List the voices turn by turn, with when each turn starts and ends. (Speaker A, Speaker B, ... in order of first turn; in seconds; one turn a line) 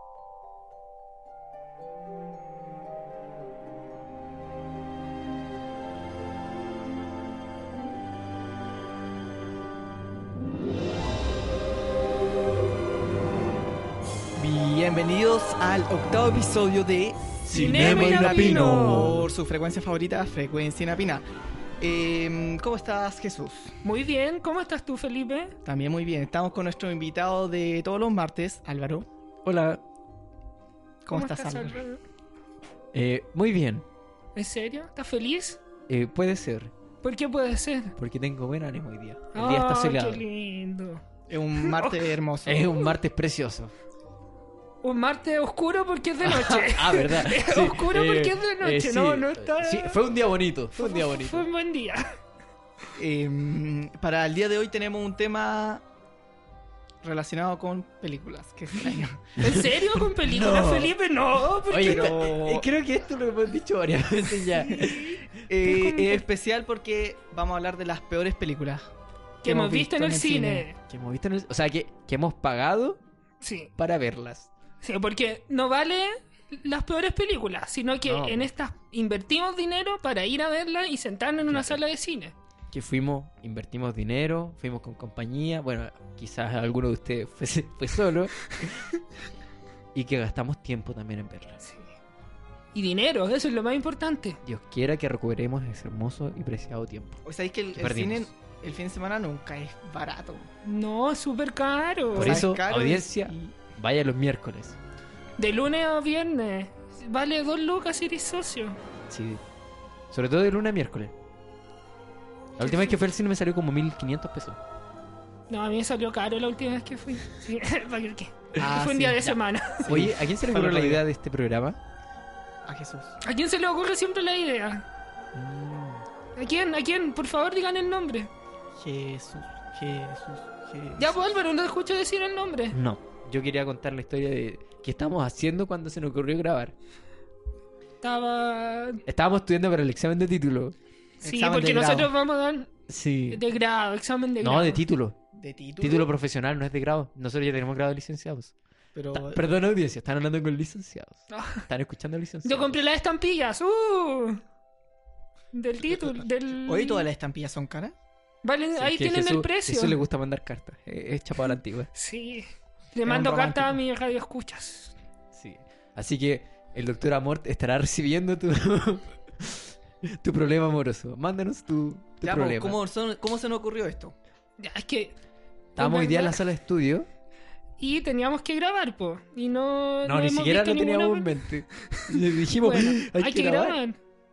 Speaker A: 14.4-21.2
Speaker B: 17.4-19.3
Speaker C: 17.5-19.0
Speaker A: 21.8-23.7
Speaker C: 23.8-25.6
Speaker A: 25.6-29.1
Speaker B: 29.4-29.8
Speaker A: 31.0-31.8
Speaker C: 31.1-32.0
Speaker B: 32.9-33.9
Speaker C: 34.4-35.6
Speaker B: 35.9-36.7
Speaker C: 37.0-37.9
Speaker B: 38.0-40.2
Speaker C: 39.3-41.0
Speaker A: 41.3-42.7
Speaker C: 41.6-42.0
Speaker B: 42.4-43.7
Speaker C: 44.8-50.0
Speaker B: 46.2-51.5
Speaker C: 50.7-52.1
Speaker A: 53.0-55.8
Speaker A: 57.0-59.3
Speaker C: 59.4-62.1
Speaker B: 59.4-60.9
Speaker B: 61.7-65.2
Speaker A: 61.8-62.6
Speaker C: 64.5-66.2
Speaker A: 65.5-68.8
Speaker C: 69.4-70.8
Speaker A: 69.4-70.7
Speaker B: 70.9-73.0
Speaker C: 73.4-73.7
Speaker B: 73.8-74.5
Speaker C: 74.8-82.3
Speaker B: 78.0-78.5
Speaker B: 81.4-81.8
Speaker B: 82.7-88.8
Speaker B: 89.9-91.6
Speaker C: 91.6-91.9
Speaker C: 92.7-94.4
Speaker B: 94.4-97.2
Speaker A: 97.2-100.5
Speaker B: 97.7-98.3
Speaker C: 100.6-102.4
Speaker B: 102.1-104.8
Speaker A: 102.2-103.5
Speaker C: 105.4-108.8
Speaker B: 109.1-109.4
Speaker B: 110.1-111.1
Speaker B: 112.6-114.6
Speaker C: 112.6-113.0
Speaker C: 115.5-119.8
Speaker A: 118.6-119.3
Speaker A: 119.8-121.0
Speaker B: 119.9-121.8
Speaker A: 122.7-123.1
Speaker C: 123.2-124.8
Speaker B: 125.3-126.0
Speaker C: 126.3-128.3
Speaker A: 128.8-131.2
Speaker C: 131.0-132.8
Speaker B: 132.7-136.7
Speaker C: 138.0-139.0
Speaker B: 139.1-140.8
Speaker C: 141.2-142.7
Speaker A: 141.2-142.1
Speaker B: 142.9-143.4
Speaker C: 143.3-144.8
Speaker B: 144.4-145.2
Speaker A: 145.3-146.1
Speaker B: 145.8-148.5
Speaker A: 148.9-149.4
Speaker B: 149.1-152.8
Speaker C: 151.3-151.7
Speaker C: 152.4-154.4
Speaker C: 155.5-157.1
Speaker A: 155.9-157.9
Speaker C: 158.4-160.0
Speaker B: 158.8-161.9
Speaker C: 161.9-164.9
Speaker A: 163.0-163.8
Speaker B: 165.3-172.8
Speaker A: 172.2-174.1
Speaker C: 174.6-175.2
Speaker B: 175.8-177.1
Speaker C: 175.8-176.4
Speaker C: 177.8-181.3
Speaker B: 180.0-183.8
Speaker C: 181.9-184.0